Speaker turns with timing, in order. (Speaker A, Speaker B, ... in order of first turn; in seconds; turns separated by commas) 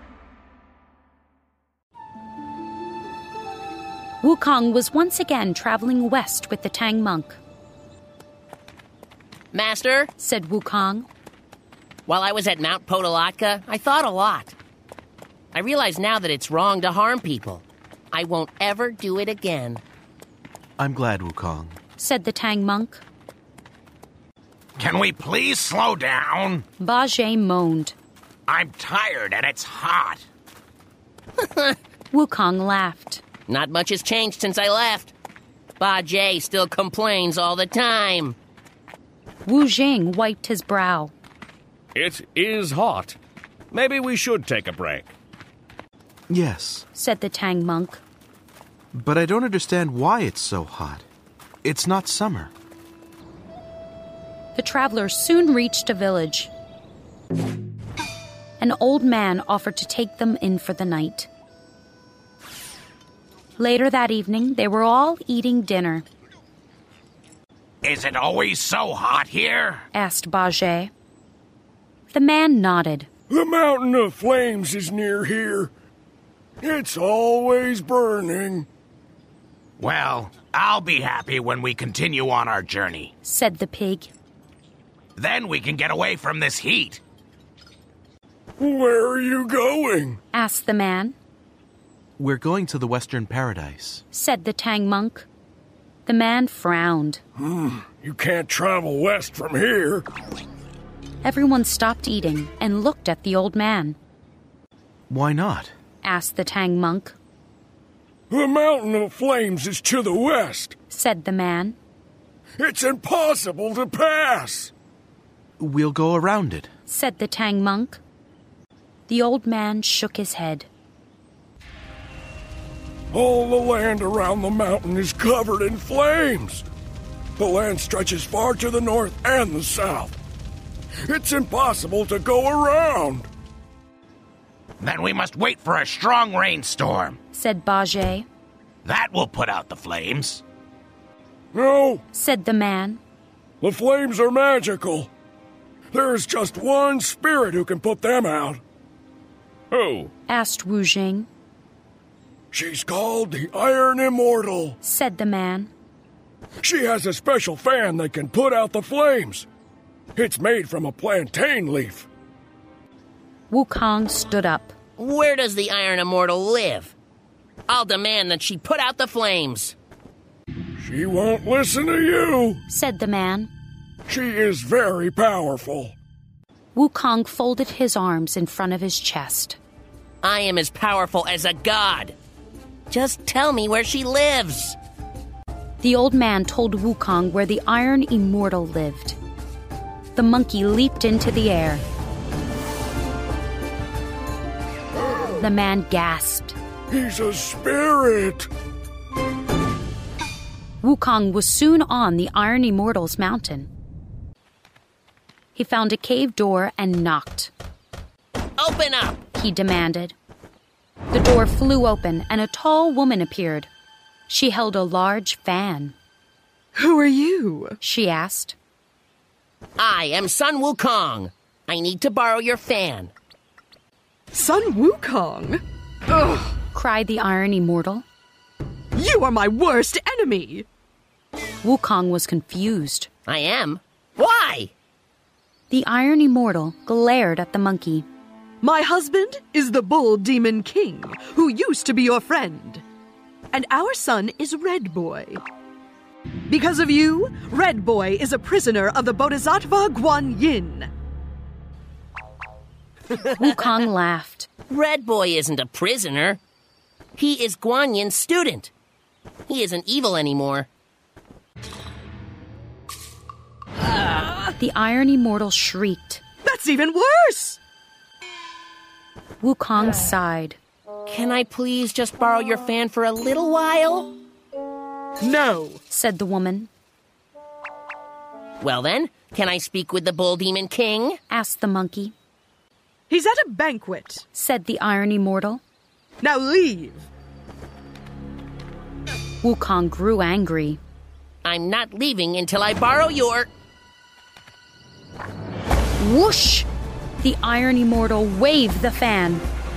Speaker A: 4.2-7.4, Speaker B: 9.5-10.1, Speaker A: 10.2-11.1, Speaker B: 12.1-14.6, Speaker B: 15.5-19.8, Speaker C: 20.8-21.8, Speaker A: 22.0-23.0, Speaker D: 24.8-26.6, Speaker A: 26.8-27.9, Speaker D: 28.5-30.3, Speaker B: 31.4-31.8, Speaker A: 32.1-33.2, Speaker B: 33.5-35.1, Speaker B: 35.8-38.4, Speaker A: 39.5-41.1, Speaker E: 42.0-43.2, Speaker E: 43.7-45.1, Speaker C: 46.3-46.9, Speaker A: 46.9-48.0, Speaker C: 48.9-51.1, Speaker C: 51.6-52.5, Speaker A: 54.5-56.5, Speaker A: 58.6-61.3, Speaker A: 63.6-66.1, Speaker D: 67.8-69.8, Speaker A: 69.9-70.9, Speaker A: 72.1-73.1, Speaker F: 73.3-75.7, Speaker F: 76.6-78.7, Speaker D: 79.8-83.1, Speaker A: 83.2-84.1, Speaker D: 85.2-87.0, Speaker F: 88.6-90.2, Speaker A: 90.3-91.2, Speaker C: 92.2-94.0, Speaker A: 94.1-95.3, Speaker A: 96.1-97.2, Speaker F: 97.4-100.1, Speaker A: 101.2-104.0, Speaker C: 105.1-105.7, Speaker A: 106.0-107.2, Speaker F: 108.3-110.8, Speaker A: 110.9-111.8, Speaker F: 112.6-114.7, Speaker C: 115.6-116.7, Speaker A: 116.9-118.0, Speaker A: 119.1-120.7, Speaker F: 123.1-126.6, Speaker F: 127.4-130.2, Speaker F: 131.1-133.3, Speaker D: 134.8-137.2, Speaker A: 137.3-138.3, Speaker D: 138.8-140.4, Speaker F: 141.5-142.0, Speaker A: 142.1-143.0, Speaker F: 143.6-145.1, Speaker F: 145.9-148.6, Speaker E: 149.7-150.1, Speaker A: 150.3-151.3, Speaker F: 152.5-154.8, Speaker A: 154.8-155.7, Speaker F: 156.6-159.5, Speaker F: 160.2-162.1, Speaker A: 163.5-164.7, Speaker B: 165.0-166.9, Speaker B: 167.7-169.8, Speaker F: 170.8-172.6, Speaker A: 172.7-173.5, Speaker F: 174.1-176.0, Speaker A: 176.8-179.6, Speaker B: 180.2-182.2, Speaker B: 182.9-184.8, Speaker A: 185.8-189.2, Speaker A: 190.2-191.8, Speaker A: 195.3-196.6, Speaker F: 196.9-198.5, Speaker A: 200.8-203.7, Speaker A: 205.6-207.5, Speaker B: 208.6-209.2, Speaker A: 209.3-210.2, Speaker A: 211.1-213.7, Speaker A: 214.3-215.9, Speaker G: 216.8-217.8, Speaker A: 217.8-218.6, Speaker B: 219.8-223.1, Speaker G: 224.3-226.5, Speaker A: 226.7-228.1, Speaker G: 229.0-230.7, Speaker A: 231.6-233.1, Speaker B: 233.3-234.7, Speaker A: 235.7-238.1, Speaker G: 238.6-242.8, Speaker G: 243.5-245.4, Speaker G: 246.5-250.9, Speaker A: 253.3-254.5, Speaker B: 254.7-256.4, Speaker B: 257.2-258.7, Speaker B: 259.5-260.7, Speaker A: 264.6-266.2, Speaker G: 266.4-267.6, Speaker A: 269.4-270.6, Speaker B: 271.1-274.2, Speaker G: 275.2-275.8, Speaker A: 275.9-276.7, Speaker B: 278.6-281.2, Speaker A: 281.3-282.1, Speaker G: 283.1-284.2, Speaker A: 284.3-285.6, Speaker G: 286.2-287.1, Speaker A: 289.4-290.8, Speaker B: 291.4-293.5, Speaker A: 296.0-296.7, Speaker A: 297.2-299.4